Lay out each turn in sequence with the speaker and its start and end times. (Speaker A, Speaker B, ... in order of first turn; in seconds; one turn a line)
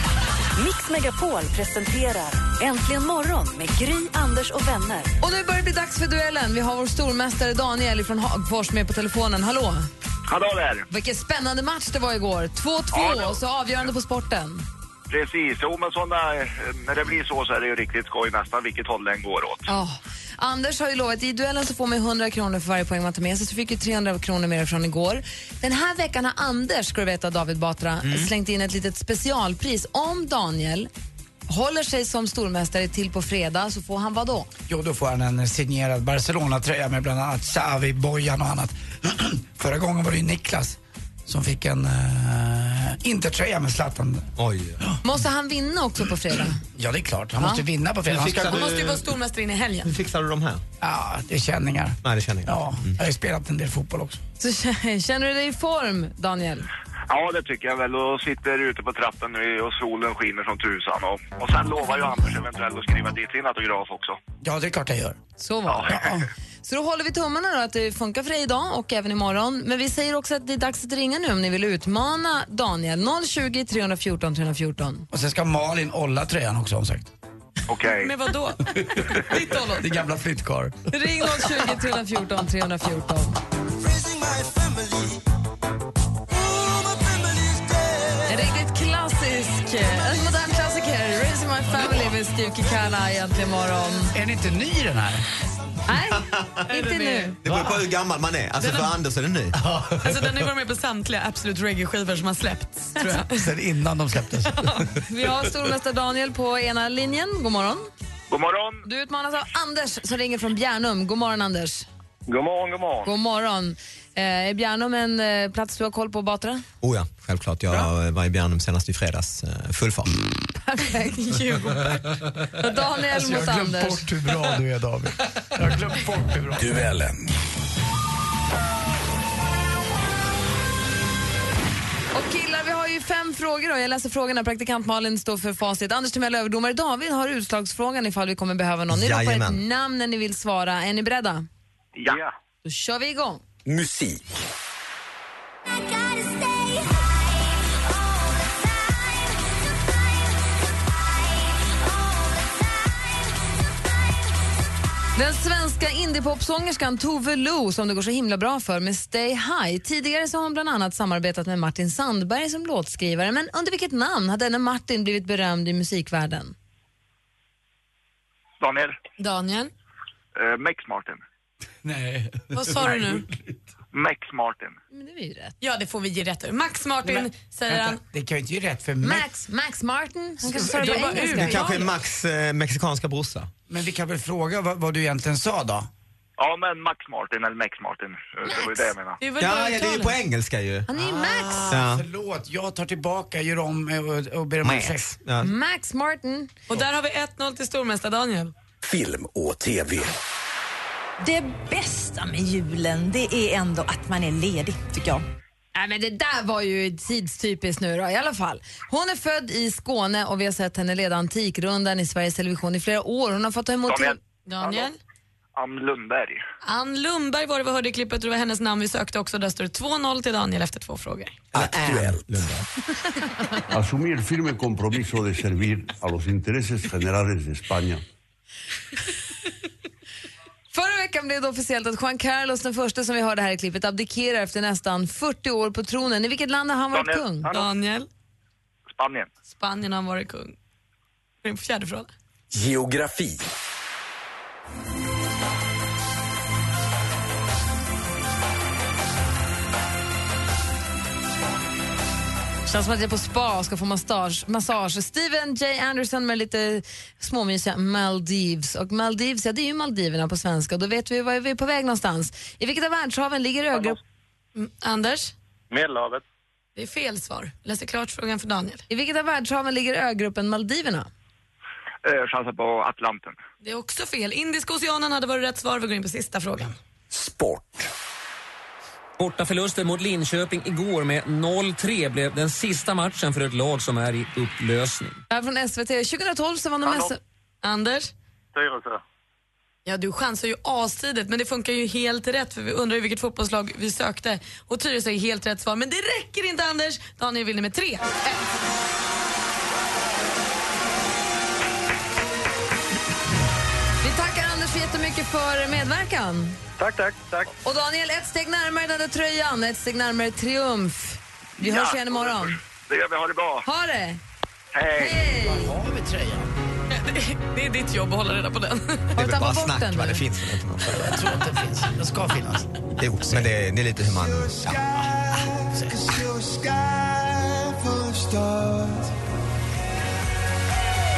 Speaker A: 0.6-5.1
Speaker B: 5.2-9.9
Speaker C: 10.3-10.9
Speaker B: 10.9-14.6
Speaker C: 12.9-13.4
Speaker C: 15.1-19.7
Speaker B: 19.7-30.9
Speaker D: 28.0-28.3
Speaker B: 31.5-34.5
Speaker E: 34.7-44.3
Speaker D: 44.4-44.8
Speaker B: 45.0-46.6
Speaker E: 46.8-48.6
Speaker D: 48.1-49.1
Speaker F: 48.4-49.9
Speaker D: 49.8-50.6
Speaker E: 50.8-54.2
Speaker D: 52.0-53.0
Speaker B: 54.4-56.7
Speaker C: 57.1-64.2
Speaker E: 64.4-65.2
Speaker B: 65.4-66.0
Speaker C: 65.7-66.1
Speaker E: 65.9-66.3
Speaker B: 66.6-75.1
Speaker E: 75.1-77.1
Speaker C: 77.7-78.1
Speaker F: 78.0-80.0
Speaker E: 78.7-80.8
Speaker B: 80.9-83.3
Speaker B: 88.2-94.1
Speaker E: 94.1-95.2
Speaker B: 95.9-97.4
Speaker D: 96.1-96.6
Speaker F: 96.7-97.4
Speaker D: 97.4-99.6
Speaker F: 98.6-98.9
Speaker E: 99.6-100.1
Speaker F: 100.0-103.3
Speaker E: 103.0-105.0
Speaker B: 105.0-107.9
Speaker C: 108.3-108.8
Speaker B: 108.8-111.8
Speaker B: 113.0-116.6
Speaker D: 116.8-120.2
Speaker B: 120.6-121.6
Speaker F: 121.2-122.0
Speaker B: 122.5-124.0
Speaker E: 123.1-126.8
Speaker G: 126.6-127.2
Speaker B: 132.1-141.4
Speaker D: 138.9-139.6
Speaker C: 141.9-142.3
Speaker B: 142.6-143.4
Speaker G: 143.7-144.2
Speaker B: 155.2-166.5
Speaker C: 168.6-169.0
Speaker F: 169.2-169.7
Speaker C: 170.3-171.2
Speaker E: 171.8-173.2
Speaker F: 172.5-173.2
Speaker C: 173.9-174.8
Speaker B: 174.9-175.5
Speaker F: 175.6-178.0
Speaker E: 177.0-179.3
Speaker B: 179.0-181.8
Speaker E: 180.5-181.0
Speaker F: 180.6-181.8
Speaker D: 181.1-183.5
Speaker E: 183.7-185.9
Speaker C: 186.4-189.2
Speaker B: 188.4-188.9
Speaker F: 189.2-190.2
Speaker D: 189.4-190.9
Speaker B: 190.9-191.8
Speaker E: 190.9-195.1
Speaker D: 191.7-192.1
Speaker D: 194.6-195.5
Speaker B: 195.4-196.5
Speaker F: 196.7-198.5
Speaker G: 198.8-200.1
Speaker H: 201.2-205.2
Speaker B: 205.8-214.2
Speaker C: 213.9-214.9
Speaker F: 214.4-215.0
Speaker C: 215.6-216.4
Speaker F: 216.6-221.3
Speaker G: 221.5-222.4
Speaker D: 221.5-222.6
Speaker I: 223.7-228.0
Speaker B: 230.7-237.5
Speaker C: 236.9-237.7
Speaker F: 237.5-238.1
Speaker C: 238.9-239.3
Speaker F: 239.5-240.6
Speaker F: 241.4-242.1
Speaker G: 242.5-243.5
Speaker B: 252.7-264.0
Speaker F: 264.6-265.3
Speaker F: 266.8-268.8
Speaker B: 268.9-271.1
Speaker C: 272.0-273.4
Speaker F: 273.6-276.8
Speaker G: 277.1-277.9
Speaker J: 279.2-285.2
Speaker B: 285.3-287.2
Speaker F: 287.6-288.1
Speaker F: 289.9-298.4
Speaker B: 304.0-306.6
Speaker J: 306.8-307.4
Speaker B: 307.5-312.6
Speaker C: 311.6-313.6
Speaker B: 313.6-314.2
Speaker C: 314.7-315.2
Speaker B: 314.9-315.7
Speaker E: 315.3-316.5
Speaker F: 316.9-319.1
Speaker D: 319.1-321.2
Speaker B: 319.2-320.2
Speaker E: 320.9-323.4
Speaker D: 323.0-324.8
Speaker E: 324.5-329.0